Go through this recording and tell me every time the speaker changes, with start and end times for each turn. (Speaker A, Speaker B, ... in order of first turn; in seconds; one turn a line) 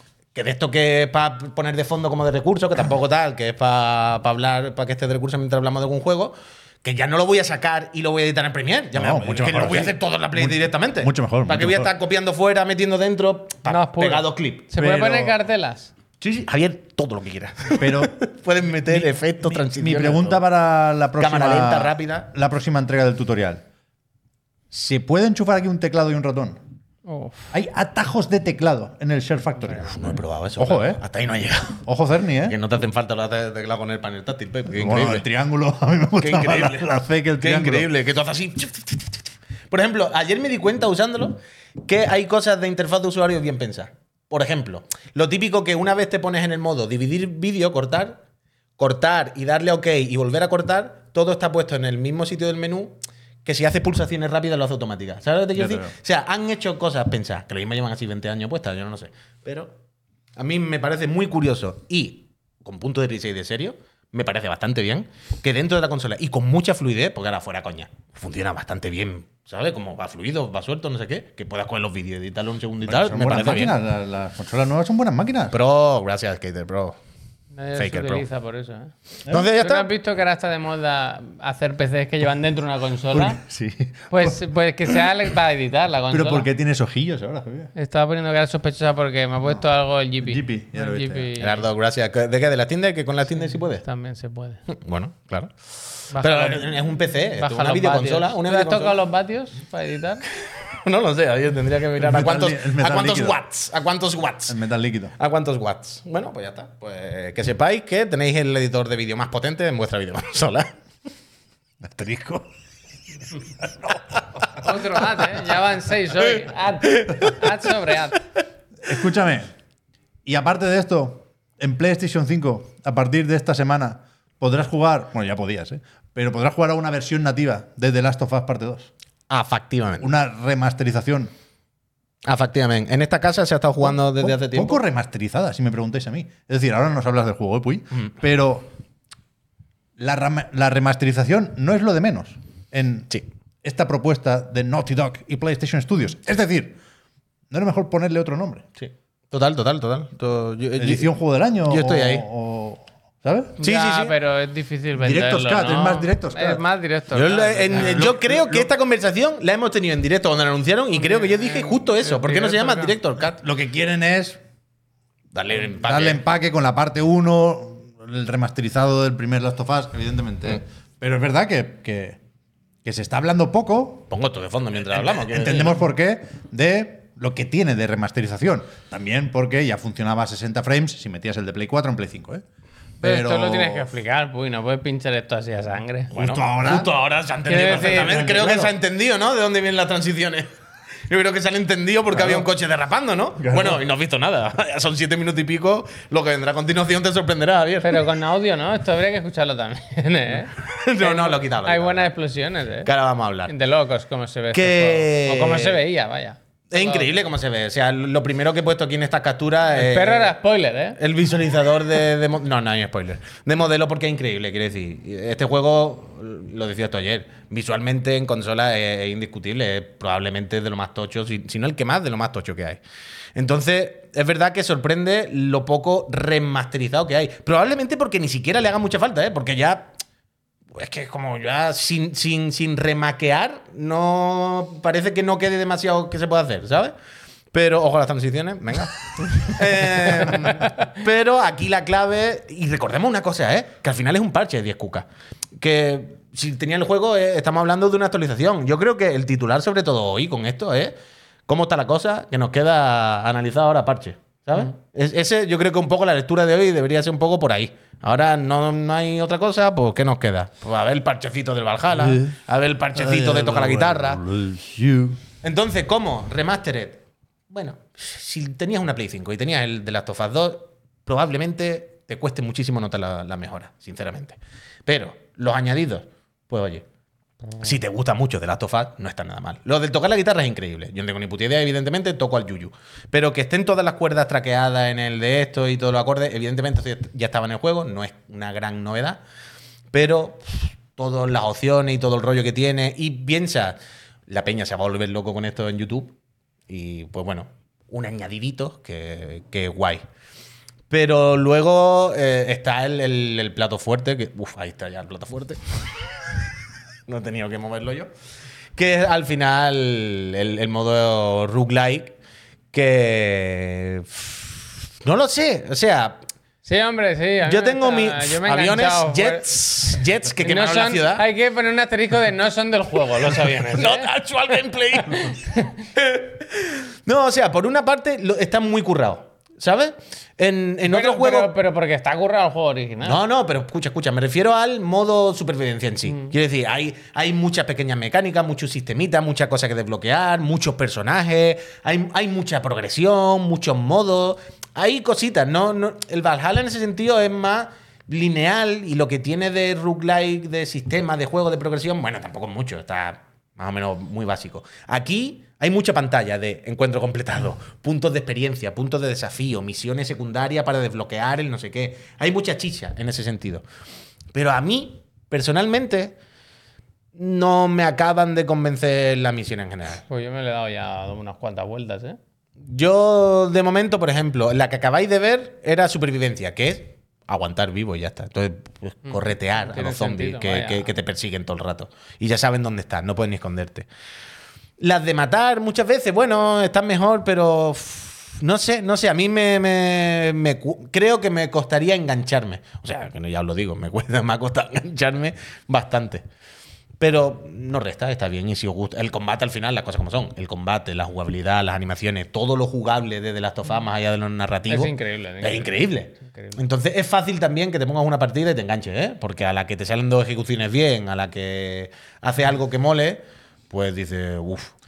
Speaker A: 0.3-14.7
Speaker B: 8.9-11.9
Speaker C: 13.7-15.9
Speaker B: 14.7-15.3
Speaker B: 16.2-16.4
Speaker A: 16.3-20.4
Speaker B: 17.8-18.2
Speaker B: 18.9-23.6
Speaker A: 21.2-22.3
Speaker B: 24.7-26.6
Speaker C: 27.1-27.5
Speaker B: 27.5-30.1
Speaker A: 29.8-31.8
Speaker B: 30.6-31.0
Speaker B: 31.8-32.6
Speaker A: 32.4-35.2
Speaker B: 34.7-37.9
Speaker A: 36.2-36.9
Speaker A: 37.4-48.2
Speaker A: 48.8-59.7
Speaker B: 55.5-55.9
Speaker A: 60.4-73.8
Speaker B: 72.8-75.6
Speaker A: 75.5-77.0
Speaker C: 77.5-83.4
Speaker A: 77.8-78.2
Speaker A: 79.3-79.9
Speaker B: 83.1-84.4
Speaker C: 84.1-86.5
Speaker B: 86.1-87.7
Speaker C: 87.7-91.7
Speaker B: 90.2-91.3
Speaker A: 91.4-93.8
Speaker C: 93.5-94.6
Speaker A: 94.7-99.0
Speaker C: 96.1-96.7
Speaker C: 97.4-100.2
Speaker A: 100.4-104.6
Speaker B: 102.0-103.4
Speaker B: 104.5-105.1
Speaker A: 105.2-110.7
Speaker B: 111.8-112.4
Speaker B: 113.6-114.2
Speaker C: 114.5-118.2
Speaker A: 116.8-117.4
Speaker B: 118.8-119.5
Speaker B: 120.2-128.9
Speaker A: 129.3-130.1
Speaker B: 130.0-131.3
Speaker A: 132.2-134.8
Speaker B: 133.8-138.7
Speaker B: 140.0-143.1
Speaker B: 143.6-146.8
Speaker B: 147.5-148.6
Speaker A: 148.8-151.1
Speaker B: 150.8-153.6
Speaker A: 151.6-152.2
Speaker A: 153.6-154.1
Speaker C: 153.6-158.1
Speaker B: 155.0-156.6
Speaker A: 157.1-163.4
Speaker B: 157.7-158.7
Speaker C: 160.9-162.9
Speaker B: 163.4-164.4
Speaker A: 165.3-166.2
Speaker B: 165.7-172.2
Speaker B: 172.8-174.1
Speaker A: 174.1-175.8
Speaker B: 175.0-182.4
Speaker B: 183.0-183.9
Speaker C: 183.0-186.1
Speaker A: 186.1-190.5
Speaker B: 186.1-186.9
Speaker C: 187.5-188.4
Speaker B: 187.6-188.7
Speaker A: 191.1-198.0
Speaker B: 192.1-192.5
Speaker B: 193.4-193.8
Speaker C: 197.8-202.9
Speaker A: 200.6-202.1
Speaker A: 202.8-203.5
Speaker C: 203.5-207.1
Speaker A: 204.5-205.8
Speaker A: 206.7-210.3
Speaker C: 209.7-211.0
Speaker A: 211.0-222.8
Speaker A: 223.3-229.9
Speaker A: 230.7-236.9
Speaker A: 237.5-250.9
Speaker C: 240.2-240.8
Speaker A: 251.5-264.2
Speaker B: 261.9-262.4
Speaker B: 262.9-265.2
Speaker A: 265.4-276.8
Speaker A: 277.6-289.2
Speaker A: 289.9-296.1
Speaker A: 296.7-300.0
Speaker A: 300.9-305.6
Speaker A: 307.1-308.1
Speaker A: 308.8-312.2
Speaker A: 312.7-316.2
Speaker C: 316.6-319.5
Speaker A: 317.4-321.2
Speaker C: 320.4-324.1
Speaker A: 323.2-325.4
Speaker C: 325.1-325.9
Speaker A: 325.9-331.5
Speaker C: 330.9-333.2
Speaker A: 333.0-363.6
Speaker C: 336.1-336.3
Speaker A: 364.3-366.1
Speaker A: 367.1-370.0
Speaker C: 370.1-372.2
Speaker A: 372.6-383.9
Speaker C: 379.1-380.9
Speaker A: 384.8-396.2
Speaker A: 397.0-414.7
Speaker C: 404.7-405.7
Speaker C: 406.2-406.6